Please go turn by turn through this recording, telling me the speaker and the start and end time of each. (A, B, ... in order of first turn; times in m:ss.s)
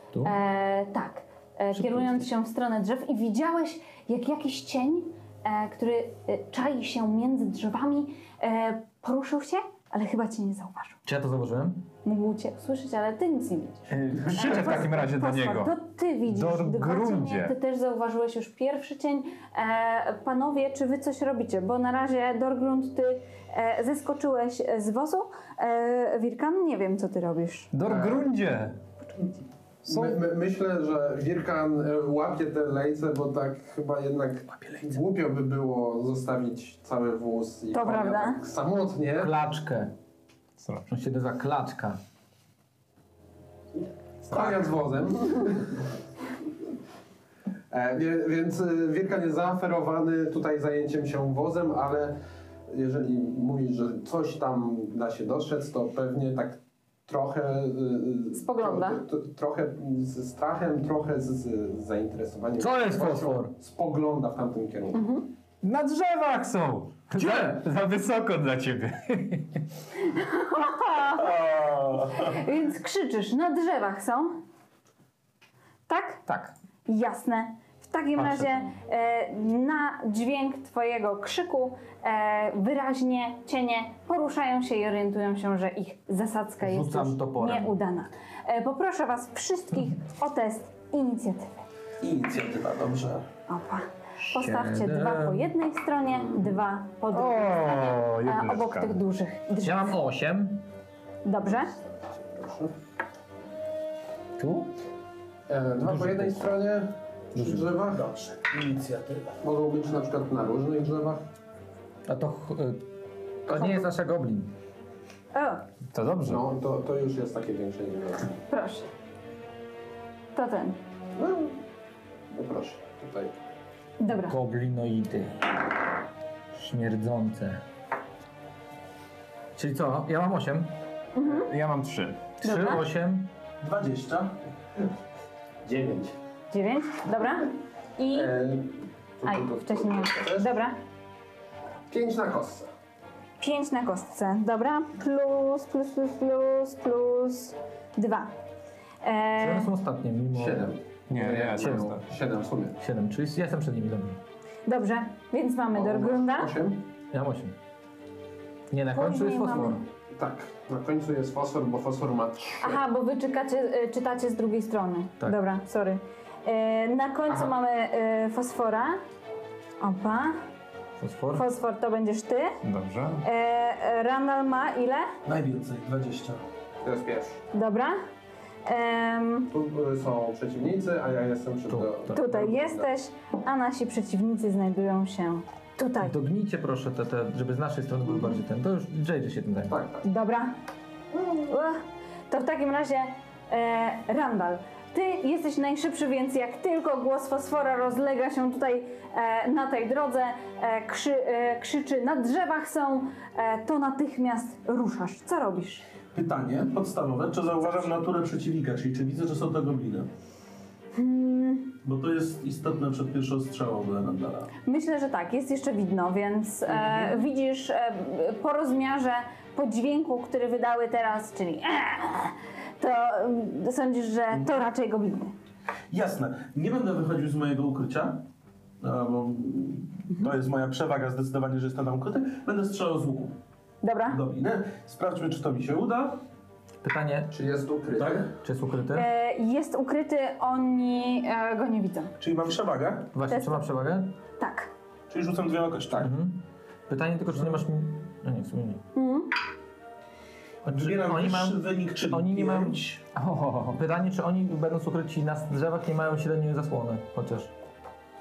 0:00.2-0:11.0 A
0:01.7-0:02.2 B
0:11.0-0:11.8 B
0:12.0-0:27.7 A
0:13.9-0:15.7 C
0:16.3-0:17.5 C
0:27.7-0:28.8 C
0:27.8-0:28.2 D
0:29.8-0:30.2 C
0:29.8-0:39.3 D
0:37.7-0:38.4 A
0:39.2-0:39.9 B
0:40.6-0:40.9 C
0:40.9-0:42.0 B
0:44.2-0:45.8 D
0:47.7-0:52.1 D
0:52.7-1:05.0 D
0:58.3-0:59.0 A
1:02.6-1:03.5 B
1:04.9-1:05.3 A
1:05.6-1:09.6 C
1:07.1-1:07.6 B
1:10.0-1:11.4 A
1:11.1-1:12.4 E
1:12.2-1:14.4 A
1:15.9-1:16.2 A
1:16.3-1:16.5 C
1:16.9-1:31.6 A
1:26.6-1:27.7 B
1:32.0-1:33.3 E
1:33.5-1:39.9 A
1:34.2-1:35.4 B
1:37.1-1:39.0 C
1:39.6-1:40.6 B
1:41.2-1:41.7 A
1:42.2-1:42.7 D
1:44.4-1:44.7 B
1:45.5-1:48.0 D
1:45.8-1:46.5 B
1:47.3-1:47.7 B
1:47.9-1:49.4 E
1:49.4-1:51.2 D
1:52.1-1:52.8 B
1:53.5-1:53.8 D
1:53.5-1:54.5 B
1:55.3-1:55.6 A
1:55.9-1:56.4 C
1:56.2-1:58.4 D
1:58.5-1:58.9 A
2:00.3-2:00.8 A
2:01.2-2:01.6 D
2:02.3-2:03.3 D
2:04.0-2:04.4 A
2:04.1-2:05.5 B
2:06.5-2:07.6 B
2:09.6-2:10.7 B
2:11.1-2:11.5 A
2:11.2-2:12.3 C
2:12.4-2:13.3 B
2:12.4-2:12.8 A
2:13.6-2:14.4 E
2:15.6-2:16.1 D
2:16.5-2:18.4 A
2:18.1-2:20.5 D
2:19.2-2:20.8 A
2:21.9-2:22.7 D
2:23.4-2:28.3 A
2:29.0-2:29.7 A
2:29.4-2:30.7 B
2:30.3-2:32.8 D
2:31.1-2:32.0 C
2:31.6-2:31.9 B
2:32.8-2:34.2 B
2:34.6-2:36.5 A
2:35.7-2:36.8 D
2:37.1-2:37.5 B
2:38.7-2:39.8 B
2:38.9-2:39.8 A
2:40.1-2:42.8 D
2:42.6-2:49.0 A
2:49.8-2:50.4 A
2:51.0-2:51.4 B
2:51.3-2:52.6 A
2:52.6-2:53.2 C
2:53.2-2:55.1 A
2:55.2-2:56.4 E
2:56.8-2:57.4 D
2:57.5-2:58.0 A
2:58.6-2:59.5 A
2:59.5-3:02.9 D
3:01.7-3:02.2 B
3:02.1-3:06.1 A
3:06.0-3:09.7 B
3:09.7-3:10.0 D
3:10.0-3:10.5 A
3:11.3-3:25.8 A
3:26.1-3:30.1 E
3:30.9-3:31.7 A
3:31.8-3:34.5 E
3:34.6-3:45.3 A
3:36.7-3:37.2 E
3:45.9-3:48.2 E
3:48.8-3:53.4 E
3:53.8-3:54.2 A
3:54.1-3:56.2 E
3:56.8-3:57.3 B
3:57.3-3:58.3 D
3:58.0-3:58.3 E
3:58.4-3:59.1 B
3:58.9-4:02.1 A
4:02.2-4:03.1 E
4:03.1-4:04.1 B
4:03.3-4:03.6 A
4:04.4-4:04.7 A
4:05.1-4:06.1 E
4:06.0-4:08.8 B
4:08.9-4:09.3 A
4:10.6-4:17.5 B
4:10.7-4:13.0 E
4:13.2-4:13.7 C